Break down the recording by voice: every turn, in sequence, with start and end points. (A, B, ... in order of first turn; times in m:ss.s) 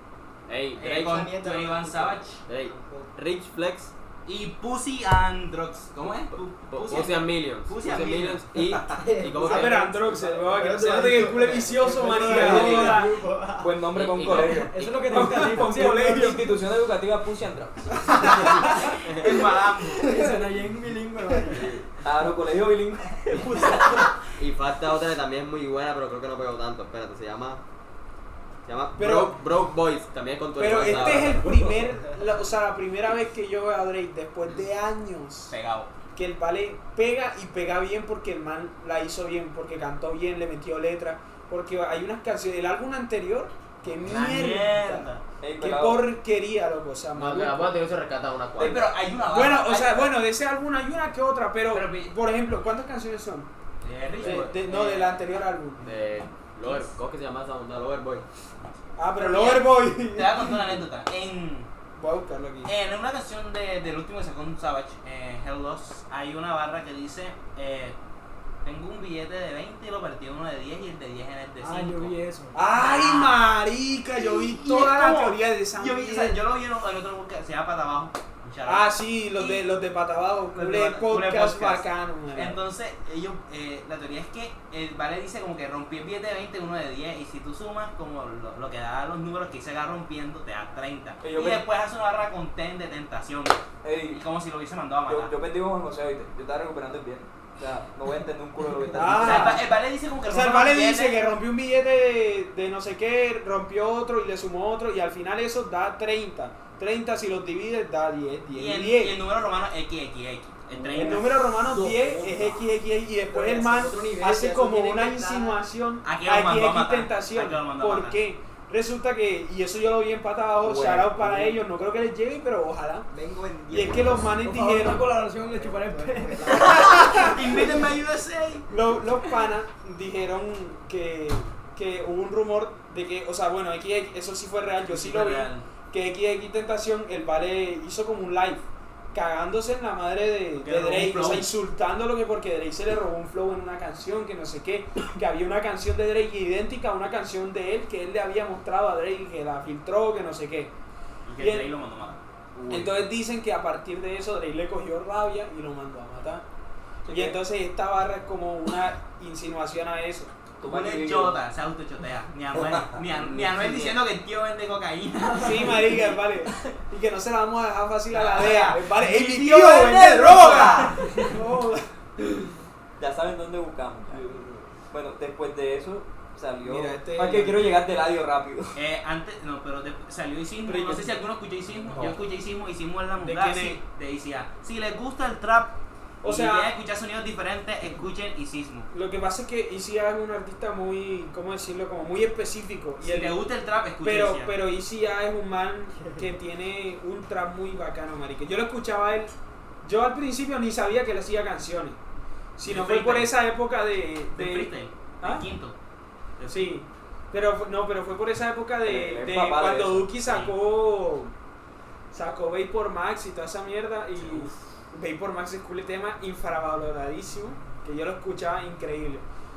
0:00.5-0:01.1 A
0:00.8-0:02.4 B
0:00.9-0:03.1 C
0:02.5-0:03.9 A
0:04.3-0:08.8 B
0:06.7-0:09.9 A
0:08.7-0:13.8 C
0:09.4-0:13.2 D
0:12.2-0:12.9 A
0:12.4-0:12.9 E
0:13.6-0:18.3 E
0:14.0-0:14.9 A
0:14.3-0:16.4 F
0:15.1-0:16.4 D
0:18.4-0:18.7 D
0:19.2-0:20.1 B
0:19.9-0:21.7 F
0:21.6-0:21.8 A
0:22.0-0:23.8 E
0:23.6-0:24.1 B
0:24.4-0:27.6 A
0:28.6-0:31.8 A
0:29.0-0:29.4 D
0:30.6-0:35.5 D
0:35.5-0:35.9 B
0:36.2-0:45.1 D
0:44.0-0:45.2 B
0:45.4-0:46.1 E
0:45.6-0:47.8 D
0:47.1-0:49.0 A
0:48.6-0:50.2 B
0:49.3-0:53.5 D
0:51.7-0:52.2 B
0:53.8-0:55.1 B
0:54.2-0:55.8 D
0:55.8-0:58.2 A
0:59.0-1:00.7 D
0:59.2-1:01.7 B
1:02.0-1:02.7 D
1:02.6-1:08.0 B
1:08.6-1:12.2 B
1:11.6-1:12.6 F
1:12.5-1:16.4 D
1:12.7-1:13.4 B
1:14.2-1:19.7 B
1:18.6-1:22.6 D
1:20.5-1:35.3 B
1:31.2-1:31.7 E
1:33.8-1:34.2 E
1:35.1-1:39.6 E
1:38.9-1:39.7 D
1:39.2-1:41.2 B
1:40.2-1:49.2 D
1:48.6-1:51.4 B
1:50.9-2:03.1 D
1:51.8-1:52.5 C
1:53.2-1:55.7 C
1:56.0-1:58.2 B
2:00.6-2:01.6 E
2:03.1-2:04.5 C
2:03.7-2:05.1 D
2:04.4-2:06.9 F
2:05.3-2:07.4 C
2:06.7-2:08.7 B
2:07.0-2:07.4 D
2:08.7-2:30.7 D
2:14.8-2:15.7 B
2:20.6-2:21.5 B
2:31.3-2:32.2 B
2:31.4-2:31.7 D
2:32.7-2:36.4 D
2:37.1-2:37.4 E
2:37.1-2:40.3 D
2:40.6-2:41.4 E
2:40.6-2:46.2 B
2:45.4-2:52.3 D
2:48.1-2:51.3 B
2:53.0-2:54.4 E
2:54.3-2:54.5 D
2:54.9-2:58.8 E
2:56.6-2:57.7 D
2:58.8-3:08.9 B
3:00.6-3:01.2 D
3:03.2-3:03.8 D
3:06.2-3:06.7 D
3:08.9-3:13.4 D
3:13.0-3:14.6 B
3:14.0-3:22.0 D
3:22.6-3:25.5 D
3:22.6-3:23.4 B
3:24.3-3:25.8 B
3:26.4-3:26.7 B
3:26.5-3:31.3 D
3:28.8-3:30.1 E
3:30.2-3:30.6 B
3:32.1-3:39.2 D
3:34.2-3:34.5 B